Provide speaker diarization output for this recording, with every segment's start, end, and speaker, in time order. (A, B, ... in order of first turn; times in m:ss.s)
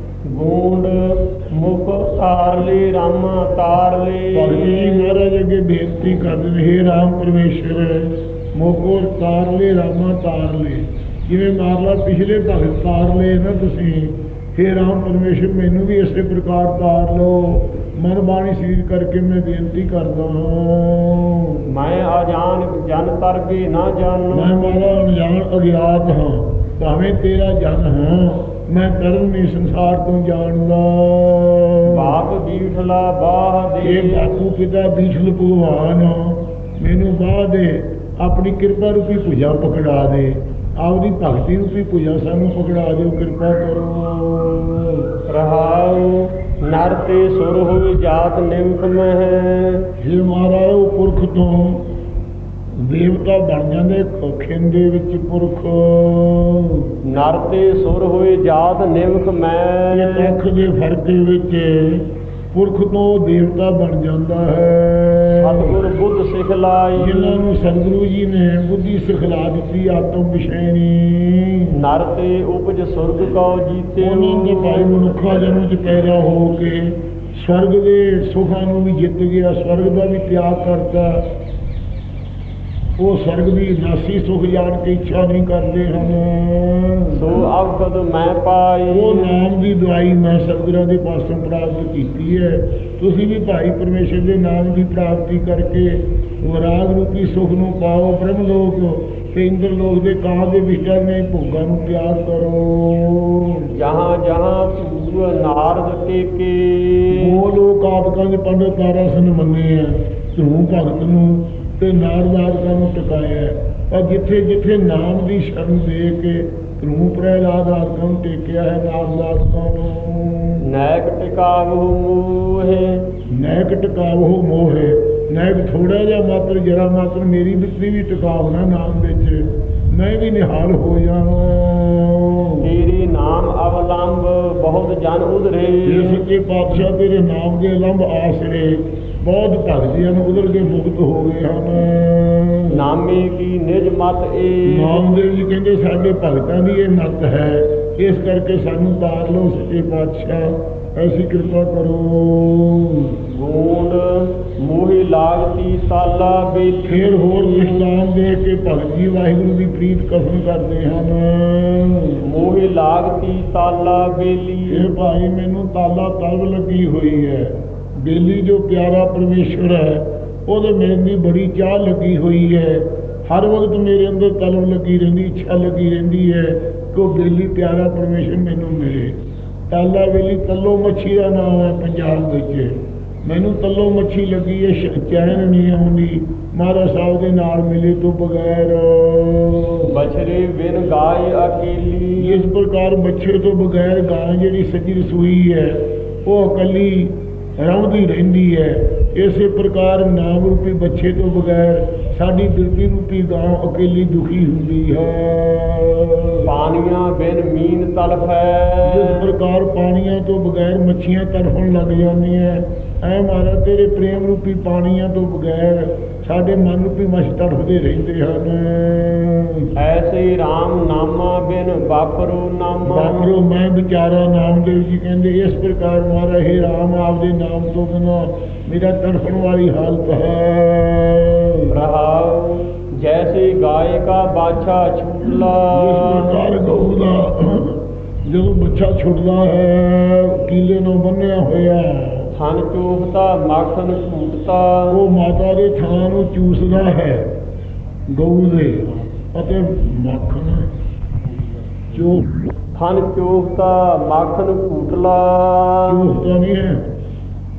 0:00.2-0:05.2 A
0:04.3-0:21.6 B
0:21.7-0:24.9 A
0:24.3-0:32.2 B
0:31.8-0:34.3 A
0:33.8-0:45.1 B
0:45.3-0:49.9 A
0:50.0-0:51.9 B
0:52.8-0:56.9 B
0:57.0-1:00.3 A
0:59.9-1:05.8 B
1:05.4-1:07.4 A
1:07.0-1:11.7 B
1:11.7-1:15.0 A
1:14.0-1:21.3 B
1:23.0-1:27.2 B
1:27.1-1:29.4 A
1:28.9-1:43.7 B
1:43.7-1:47.4 A
1:47.1-2:00.6 B
2:00.6-2:03.0 A
2:03.3-2:12.7 B
2:12.6-2:16.2 A
2:15.8-2:22.8 B
2:22.7-2:25.1 A
2:24.7-2:33.2 B
2:33.2-2:37.8 A
2:36.9-2:42.2 B
2:42.2-2:44.9 A
2:44.7-3:02.7 B
3:03.2-3:09.9 B
3:09.8-3:12.5 A
3:12.2-3:26.5 B
3:26.4-3:29.3 A
3:28.8-3:39.7 B
3:39.8-3:43.3 A
3:42.9-3:51.7 B
3:51.7-3:56.4 A
3:55.7-4:02.3 B
4:02.3-4:05.0 A
4:04.9-4:07.3 B
4:08.1-4:10.7 B
4:11.9-4:12.3 B
4:12.7-4:16.0 A
4:15.9-4:16.9 B